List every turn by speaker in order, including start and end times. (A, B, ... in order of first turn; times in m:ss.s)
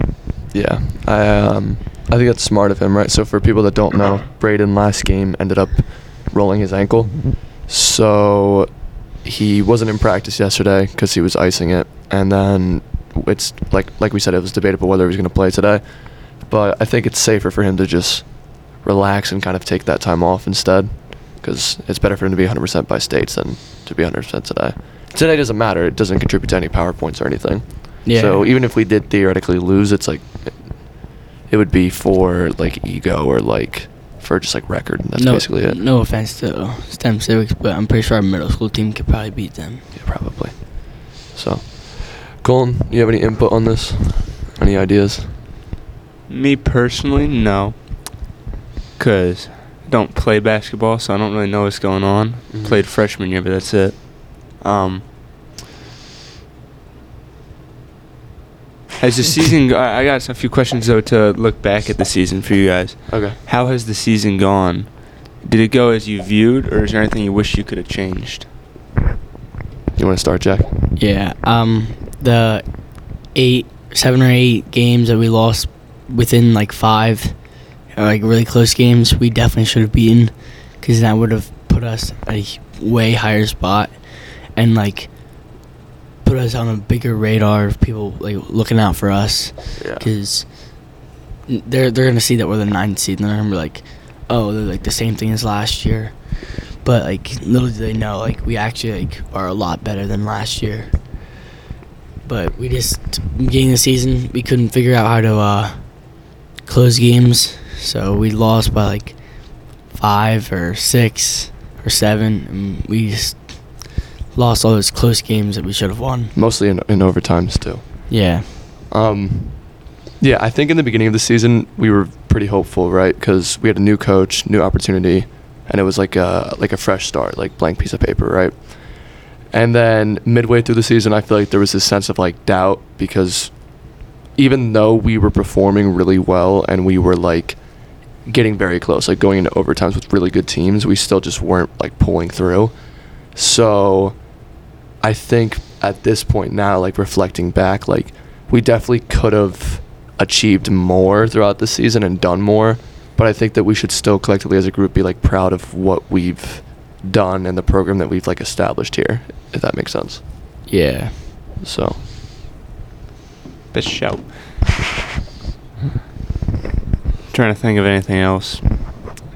0:00.5-0:35.8 A
0:28.0-0:28.4 B
0:35.2-0:39.8 B
0:39.9-0:45.4 A
0:46.3-0:47.8 C
0:49.0-0:55.1 C
0:52.5-0:52.8 A
0:59.0-1:08.5 C
1:03.1-1:03.4 A
1:09.9-1:10.7 A
1:11.0-1:17.4 B
1:17.9-1:25.1 B
1:26.2-1:30.9 B
1:29.8-1:30.1 A
1:31.5-1:41.0 B
1:42.2-1:56.3 B
1:56.3-1:58.2 A
1:58.1-1:58.6 B
1:58.9-2:17.6 A
2:18.2-2:22.8 A
2:23.3-2:24.2 A
2:25.0-2:40.2 A
2:40.7-2:41.2 B
2:41.6-2:42.0 A
2:43.7-2:44.6 C
2:47.3-2:48.6 C